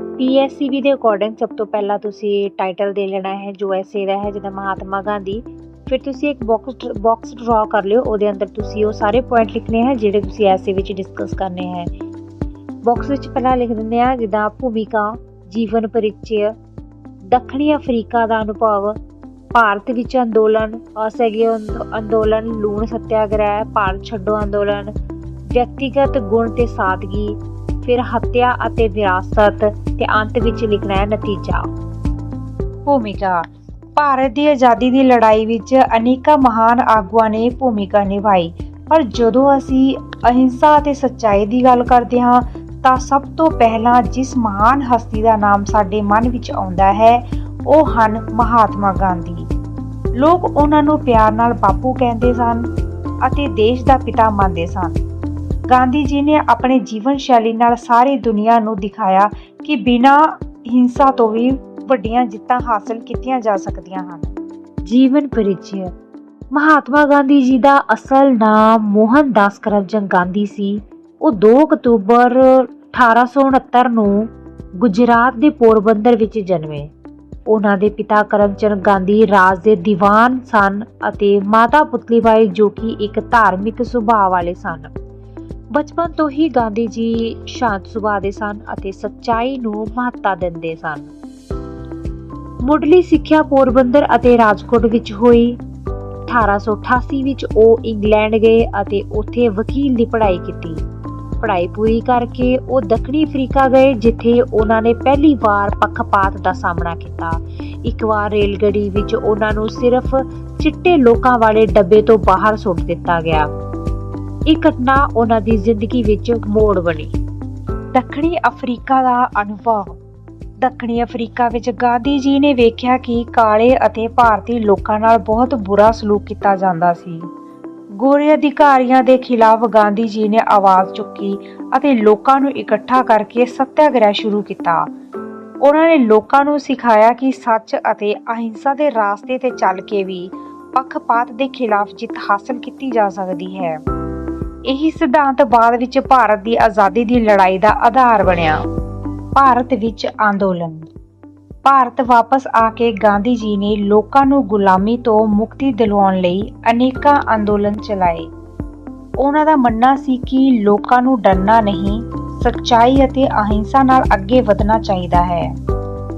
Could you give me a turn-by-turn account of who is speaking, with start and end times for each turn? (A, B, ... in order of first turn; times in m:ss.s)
0:00.2-0:11.9 A
0:12.8-0:16.5 A
0:17.3-0:19.0 A
0:19.5-0:24.9 A
0:25.5-0:31.6 A
0:32.9-0:33.4 A
0:34.0-0:49.5 A
0:50.2-0:52.7 A
0:53.2-0:55.0 A
0:55.7-1:04.4 A
1:04.9-1:05.9 A
1:06.5-1:16.9 A
1:17.5-1:24.9 A
1:25.7-1:31.1 A
1:32.6-1:35.6 A
1:36.3-1:40.8 A
1:41.4-1:53.5 A
1:54.5-1:57.1 A
1:57.9-2:00.0 A
2:00.6-2:07.2 A
2:08.0-2:14.9 A
2:15.6-2:23.8 A
2:24.7-2:28.6 A
2:29.4-2:30.9 A
2:31.6-2:38.3 A
2:39.2-2:45.5 A